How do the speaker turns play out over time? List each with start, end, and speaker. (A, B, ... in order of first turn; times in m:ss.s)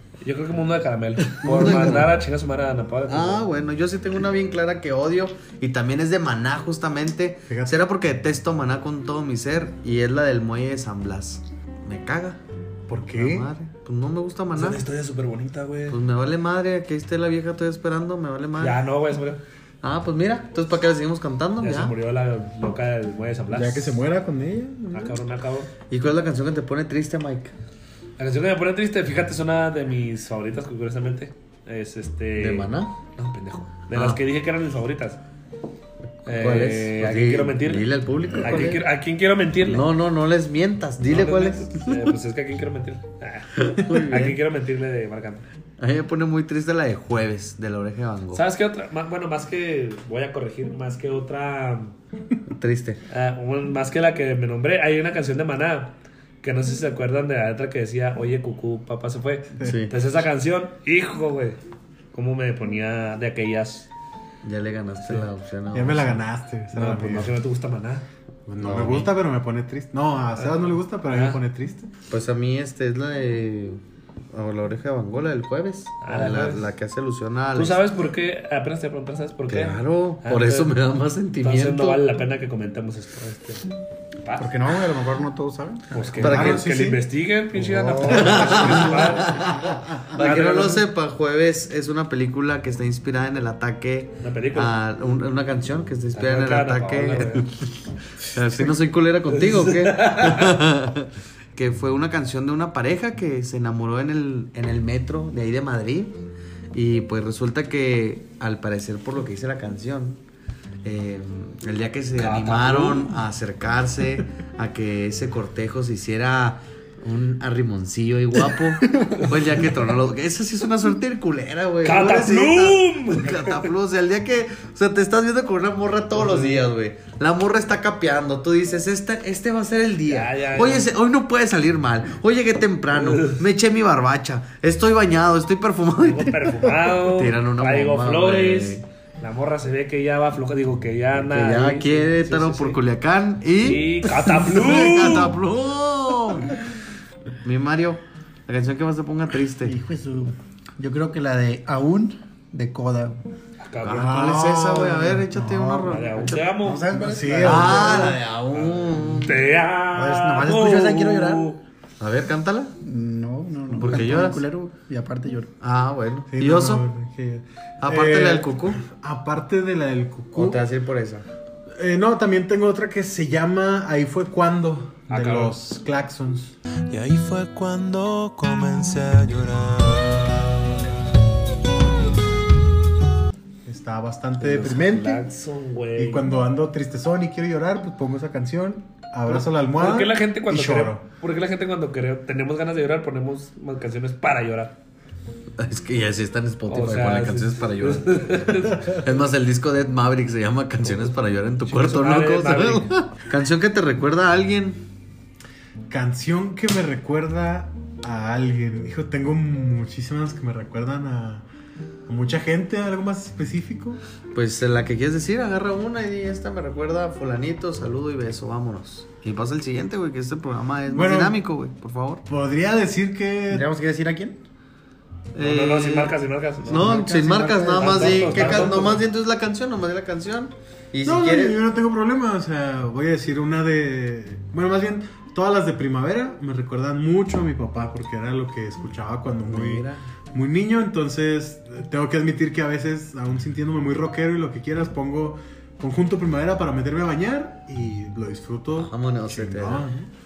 0:00.2-0:03.4 A
0:01.4-0:02.1 B
0:01.4-0:01.8 C
0:03.1-0:12.4 B
0:07.5-0:07.8 D
0:12.9-0:13.5 D
0:13.1-0:14.8 B
0:14.5-0:16.0 A
0:15.9-0:18.8 B
0:18.6-0:19.4 A
0:19.8-0:21.9 B
0:21.6-0:24.0 A
0:23.5-0:25.2 D
0:24.9-0:25.7 A
0:25.9-0:27.5 B
0:28.2-0:35.2 A
0:32.4-0:32.9 B
0:33.9-0:34.2 B
0:36.2-0:38.8 B
0:36.2-0:37.9 A
0:38.4-0:39.8 A
0:39.7-0:42.1 B
0:41.0-0:45.4 A
0:43.5-0:44.4 B
0:45.8-0:48.4 B
0:48.3-0:52.0 A
0:52.5-0:53.0 B
0:53.1-1:01.6 A
0:59.6-0:59.9 B
1:02.1-1:03.9 A
1:04.4-1:06.2 B
1:05.7-1:07.4 D
1:06.7-1:08.0 A
1:08.5-1:11.9 D
1:08.6-1:09.1 B
1:10.4-1:11.4 A
1:12.1-1:13.8 B
1:14.3-1:17.8 B
1:16.0-1:16.7 A
1:17.5-1:20.7 A
1:19.5-1:22.0 B
1:21.4-1:23.7 A
1:24.2-1:24.5 A
1:24.4-1:25.9 C
1:25.9-1:29.4 A
1:26.2-1:27.0 B
1:26.2-1:27.0 D
1:27.6-1:29.3 C
1:28.1-1:37.7 B
1:30.2-1:30.8 A
1:34.2-1:34.7 A
1:36.1-1:37.5 A
1:38.2-1:46.1 B
1:39.6-1:40.5 A
1:46.7-1:50.2 B
1:50.8-2:18.8 B
1:52.2-1:53.2 A
2:01.8-2:03.5 A
2:06.1-2:06.7 A
2:10.1-2:10.9 A
2:12.9-2:13.4 A
2:16.0-2:22.8 A
2:21.2-2:26.6 B
2:23.6-2:25.3 A
2:27.4-2:29.8 B
2:29.6-2:33.2 C
2:33.6-2:34.2 A
2:33.8-2:36.4 B
2:33.9-2:35.6 D
2:35.4-2:38.2 C
2:35.8-2:36.9 A
2:36.9-2:38.0 D
2:37.4-2:39.4 B
2:38.5-2:41.6 A
2:39.9-2:41.5 C
2:42.0-2:42.7 B
2:42.8-2:45.5 C
2:43.7-2:44.4 B
2:45.6-2:46.8 B
2:46.3-2:50.6 D
2:47.8-2:48.8 B
2:50.3-2:51.2 B
2:51.7-2:56.5 D
2:55.1-2:55.6 A
2:56.9-3:00.9 E
3:03.6-3:05.2 D
3:04.4-3:06.3 A
3:06.0-3:11.0 D
3:09.3-3:14.8 A
3:15.6-3:24.8 B
3:16.7-3:19.0 A
3:21.6-3:22.9 A
3:25.9-3:31.4 D
3:32.1-3:34.0 D
3:34.3-3:42.2 B
3:40.9-3:41.4 D
3:42.3-3:43.7 D
3:43.5-3:44.4 C
3:45.3-3:51.6 B
3:45.4-3:46.9 A
3:46.7-3:47.3 D
3:46.8-3:48.8 C
3:47.8-3:49.0 A
3:51.0-4:10.1 D
3:59.5-4:00.0 B
4:08.7-4:09.9 B